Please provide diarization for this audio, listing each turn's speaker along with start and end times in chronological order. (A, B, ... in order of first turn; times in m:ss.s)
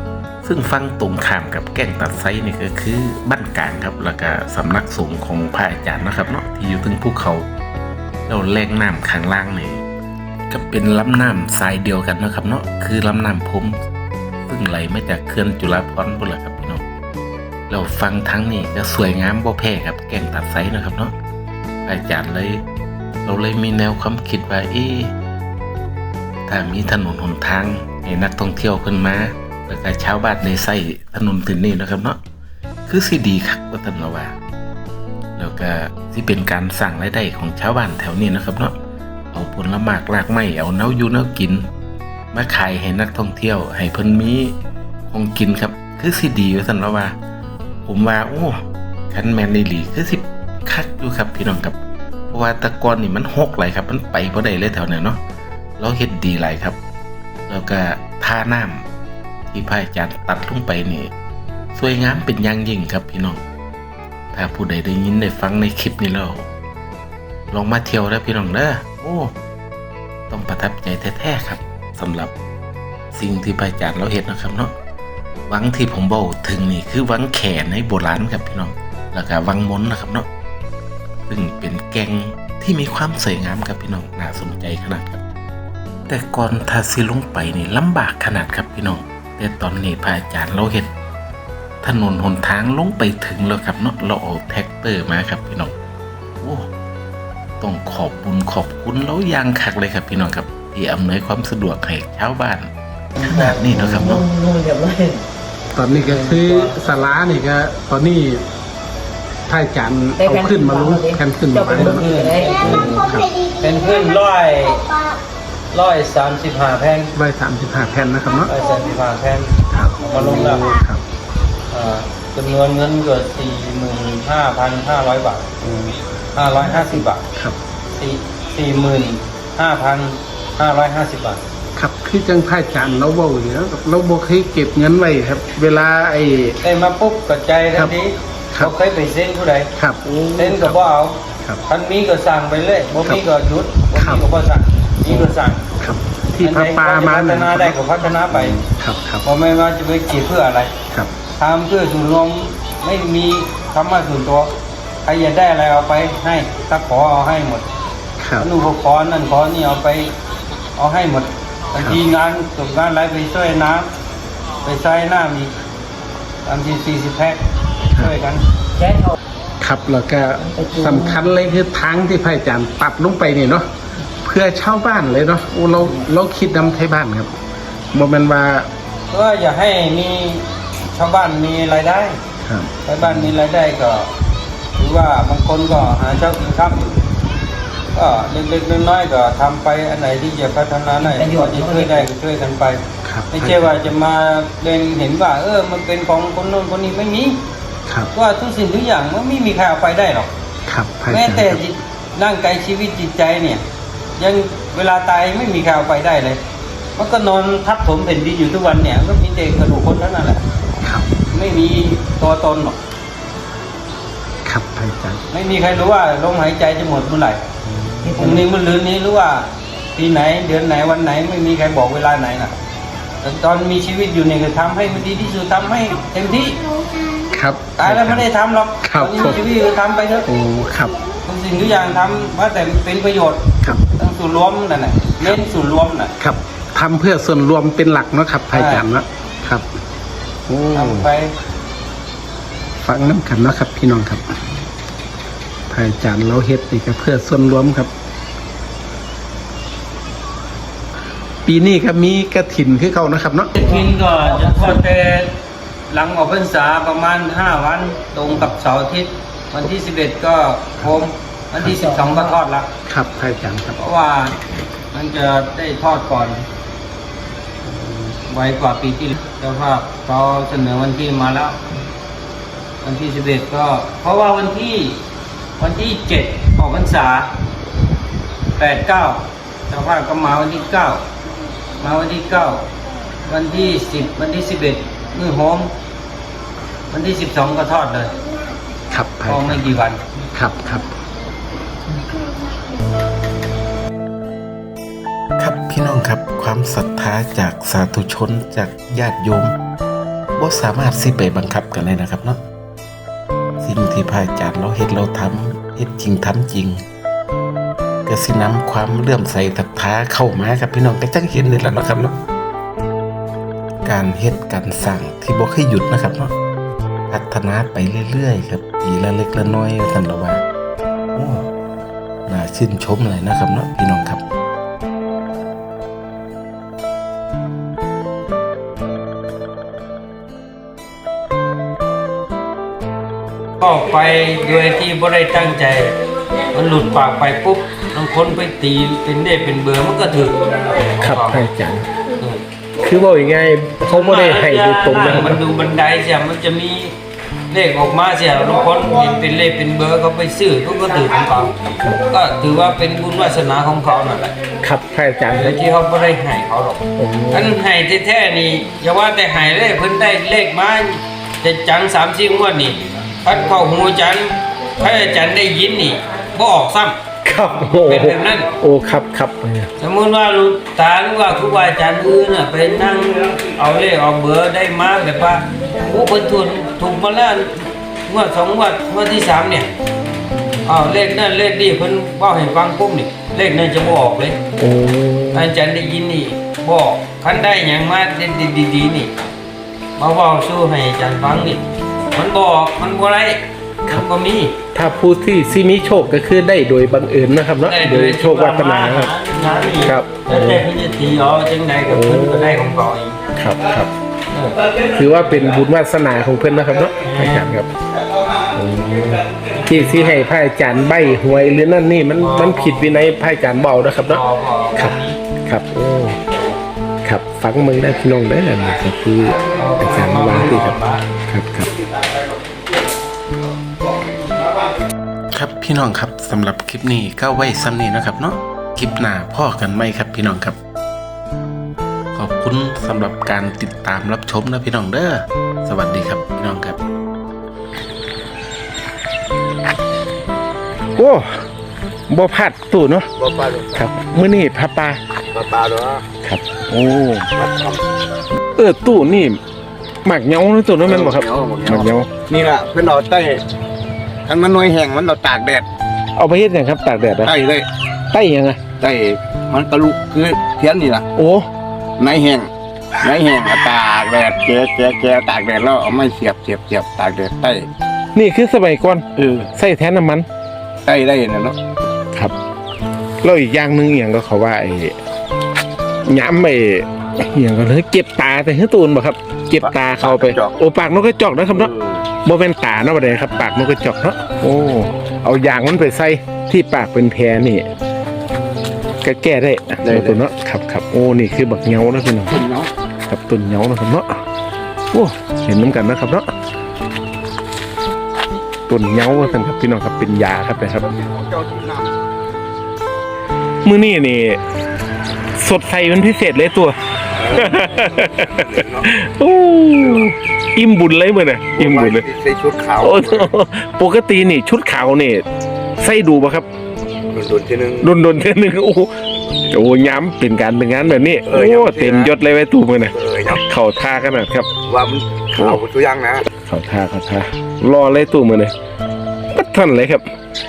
0:00.4-0:07.5 A
0:08.3-0:09.8 A
0:10.5-0:13.8 A
0:14.5-0:16.8 A
0:17.7-0:21.1 A
0:21.9-0:22.6 A
0:23.2-0:25.1 A
0:26.5-0:32.2 A
0:32.9-0:34.4 A
0:35.4-0:38.7 A
0:39.3-0:41.7 A
0:42.3-0:44.6 A
0:45.1-0:47.2 A
0:47.9-0:51.8 A
0:52.3-0:55.2 A
0:55.8-0:56.8 A
0:57.5-0:58.8 A
0:59.5-1:01.1 A
1:01.8-1:03.4 A
1:04.3-1:06.4 A
1:07.5-1:09.3 A
1:10.3-1:12.3 A
1:13.1-1:14.7 A
1:15.5-1:20.3 A
1:21.3-1:25.2 A
1:26.1-1:30.9 A
1:31.8-1:35.7 A
1:36.4-1:36.7 A
1:37.6-1:42.7 A
1:43.2-1:45.2 B
1:43.2-1:44.3 A
1:43.7-1:44.2 C
1:45.7-1:48.4 C
1:45.9-1:46.8 D
1:49.5-1:52.1 C
1:50.2-1:53.2 B
1:51.7-1:54.9 D
1:52.6-1:53.3 C
1:55.7-1:57.1 D
1:57.2-1:58.5 C
1:58.5-2:00.8 D
1:59.7-2:01.0 C
2:01.7-2:05.5 D
2:05.6-2:06.0 C
2:06.3-2:07.2 D
2:07.9-2:11.4 D
2:11.8-2:16.6 C
2:16.6-2:19.7 D
2:19.8-2:20.8 C
2:20.4-2:25.7 D
2:24.0-2:24.2 C
2:25.1-2:27.8 C
2:26.4-2:28.6 D
2:28.3-2:29.3 C
2:29.2-2:30.7 D
2:31.4-2:34.5 D
2:35.0-2:37.7 D
2:38.2-2:38.5 C
2:38.4-2:40.1 D
2:40.8-2:43.9 D
2:44.6-2:45.5 D
2:46.4-2:47.4 D
2:47.9-2:48.4 D
2:48.8-2:49.2 B
2:49.6-2:53.7 C
2:50.4-2:51.2 B
2:54.2-2:57.3 C
2:57.9-2:58.7 C
2:59.1-3:02.2 D
3:02.4-3:03.3 C
3:02.8-3:04.1 D
3:04.8-3:07.0 D
3:07.9-3:17.4 D
3:11.0-3:12.1 B
3:13.0-3:13.9 C
3:18.1-3:20.3 D
3:20.7-3:21.6 C
3:21.1-3:23.6 D
3:24.2-3:26.4 D
3:27.0-3:30.4 D
3:30.8-3:31.1 C
3:31.3-3:32.8 D
3:34.4-3:35.2 C
3:35.3-3:37.4 D
3:37.6-3:38.3 C
3:38.1-3:42.5 D
3:43.2-3:46.6 D
3:47.3-3:48.2 C
3:47.8-3:50.3 D
3:48.8-3:49.4 C
3:50.3-3:51.0 C
3:51.2-3:56.1 D
3:56.2-3:59.7 C
3:58.5-3:58.9 D
4:00.5-4:01.1 C
4:00.7-4:01.3 D
4:02.8-4:04.3 C
4:05.7-4:07.9 C
4:11.5-4:13.5 C
4:13.6-4:15.3 D
4:13.6-4:14.7 B
4:15.9-4:22.7 D
4:21.7-4:22.3 B
4:22.9-4:23.8 C
4:23.8-4:24.4 D
4:24.9-4:26.5 D
4:27.7-4:28.1 C
4:28.2-4:31.7 D
4:32.8-4:35.0 D
4:35.6-4:37.3 D
4:38.6-4:41.0 D
4:41.8-4:42.7 D
4:43.3-4:45.7 D
4:46.9-4:48.1 D
4:48.9-4:49.6 C
4:49.3-4:50.0 D
4:50.3-4:50.9 C
4:55.4-4:59.5 A
5:00.4-5:02.4 A
5:03.6-5:06.8 A
5:08.1-5:12.2 A
5:13.9-5:16.3 A
5:17.1-5:20.4 A
5:21.2-5:21.5 A
5:22.3-5:24.2 A
5:33.6-5:36.0 D
5:36.5-5:41.4 D
5:41.0-5:41.9 C
5:42.2-5:42.4 D
5:42.8-5:45.4 C
5:43.8-5:47.0 D
5:47.5-5:54.3 D
5:54.6-5:55.6 C
5:55.4-6:07.0 D
5:57.0-5:57.5 C
6:07.2-6:09.7 C
6:07.8-6:08.5 D
6:09.8-6:19.7 D
6:20.6-6:24.4 D
6:24.6-6:25.5 C
6:25.3-6:29.1 D
6:30.0-6:31.6 D
6:32.1-6:34.6 D
6:34.7-6:39.1 C
6:37.6-6:43.2 D
6:39.8-6:40.6 C
6:41.9-6:42.6 C
6:43.4-6:43.9 C
6:44.3-6:44.7 D
6:44.8-6:47.7 C
6:47.0-6:47.5 D
6:48.5-6:54.2 C
6:52.2-6:52.9 D
6:53.9-6:55.2 D
6:54.8-6:56.2 C
6:57.0-7:00.7 C
6:59.5-7:01.0 D
7:01.3-7:01.6 C
7:05.3-7:07.6 A
7:05.4-7:08.2 C
7:08.2-7:10.5 A
7:12.2-7:16.8 A
7:21.0-7:21.4 C
7:22.1-7:23.1 C
7:23.2-7:23.8 E
7:23.8-7:25.0 C
7:25.3-7:26.0 E
7:26.2-7:27.3 C
7:27.4-7:27.8 E
7:28.6-7:29.4 C
7:30.0-7:32.1 C
7:30.8-7:33.4 E
7:34.3-7:35.7 E
7:36.2-7:37.4 C
7:37.2-7:37.7 E
7:38.1-7:38.6 C
7:38.8-7:41.1 E
7:41.2-7:41.5 C
7:42.0-7:47.7 E
7:48.2-7:50.3 C
7:49.2-7:49.5 E
7:50.9-7:51.6 E
7:53.2-7:55.0 C
7:56.0-8:01.7 C
7:59.6-8:00.6 E
8:01.5-8:02.0 E
8:02.2-8:07.7 C
8:09.0-8:12.4 C
8:09.8-8:10.2 E
8:12.3-8:12.7 E
8:13.1-8:14.1 C
8:14.9-8:16.3 C
8:18.7-8:20.8 C
8:19.0-8:19.4 E
8:20.8-8:21.9 E
8:23.6-8:24.4 C
8:25.4-8:26.8 C
8:27.2-8:28.9 E
8:27.3-8:32.0 C
8:29.8-8:30.1 E
8:31.5-8:33.3 E
8:32.8-8:35.2 C
8:35.8-8:36.5 C
8:37.1-8:37.9 E
8:37.8-8:38.9 C
8:39.5-8:44.5 C
8:41.3-8:42.1 E
8:42.9-8:43.4 E
8:44.7-8:46.2 E
8:46.5-8:48.5 C
8:49.3-8:50.0 C